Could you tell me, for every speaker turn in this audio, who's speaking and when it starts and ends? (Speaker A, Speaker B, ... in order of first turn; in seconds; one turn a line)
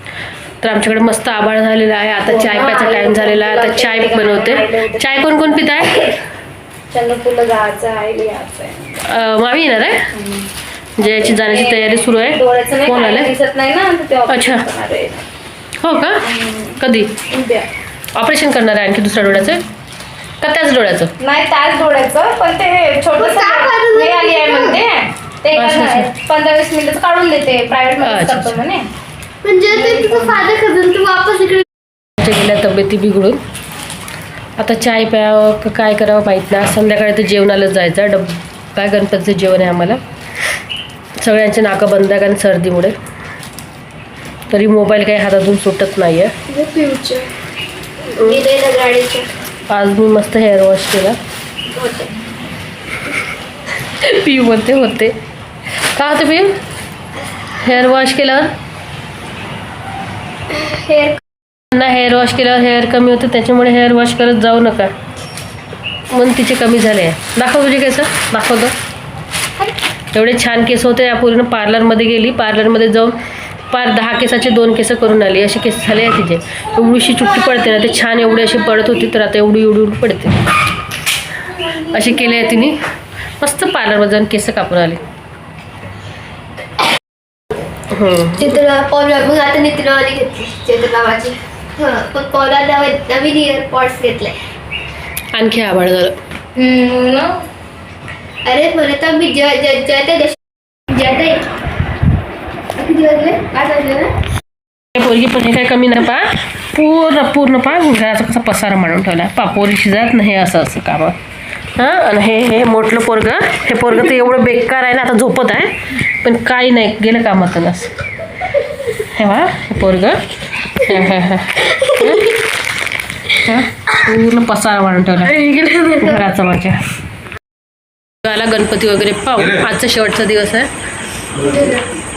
Speaker A: 0.6-6.1
Speaker B: 2.2-5.9
Speaker B: 6.9-9.0
Speaker A: 9.0-10.1
Speaker B: 10.1-10.5
Speaker A: 11.0-13.3
Speaker B: 11.0-15.2
Speaker A: 14.3-14.6
Speaker A: 15.8-16.2
Speaker B: 16.2-17.7
Speaker A: 16.8-17.2
Speaker A: 18.1-19.6
Speaker A: 20.4-21.1
Speaker B: 21.2-28.9
Speaker C: 23.2-24.8
Speaker A: 25.5-26.1
Speaker A: 28.0-28.6
Speaker C: 29.4-31.6
Speaker B: 29.7-30.5
Speaker A: 32.2-33.4
Speaker A: 34.6-40.0
Speaker A: 41.2-42.9
Speaker A: 44.5-46.3
Speaker C: 46.5-47.3
Speaker C: 48.1-49.3
Speaker A: 48.2-48.4
Speaker A: 49.7-51.2
Speaker C: 51.7-52.1
Speaker A: 54.0-55.1
Speaker A: 55.9-56.6
Speaker A: 57.5-58.5
Speaker C: 60.5-61.2
Speaker A: 61.7-64.9
Speaker A: 66.1-68.7
Speaker A: 70.1-73.1
Speaker A: 73.7-80.4
Speaker A: 81.8-82.8
Speaker C: 82.0-82.4
Speaker A: 83.4-85.0
Speaker A: 87.9-88.6
Speaker C: 88.4-94.4
Speaker A: 95.3-96.2
Speaker B: 96.5-97.4
Speaker C: 98.4-100.4
Speaker C: 100.9-101.5
Speaker C: 102.8-104.2
Speaker A: 104.9-111.2
Speaker A: 111.8-117.9
Speaker A: 119.0-122.4
Speaker A: 123.3-125.4
Speaker C: 125.4-126.2
Speaker A: 126.0-126.8
Speaker A: 128.2-130.7
Speaker C: 131.4-131.8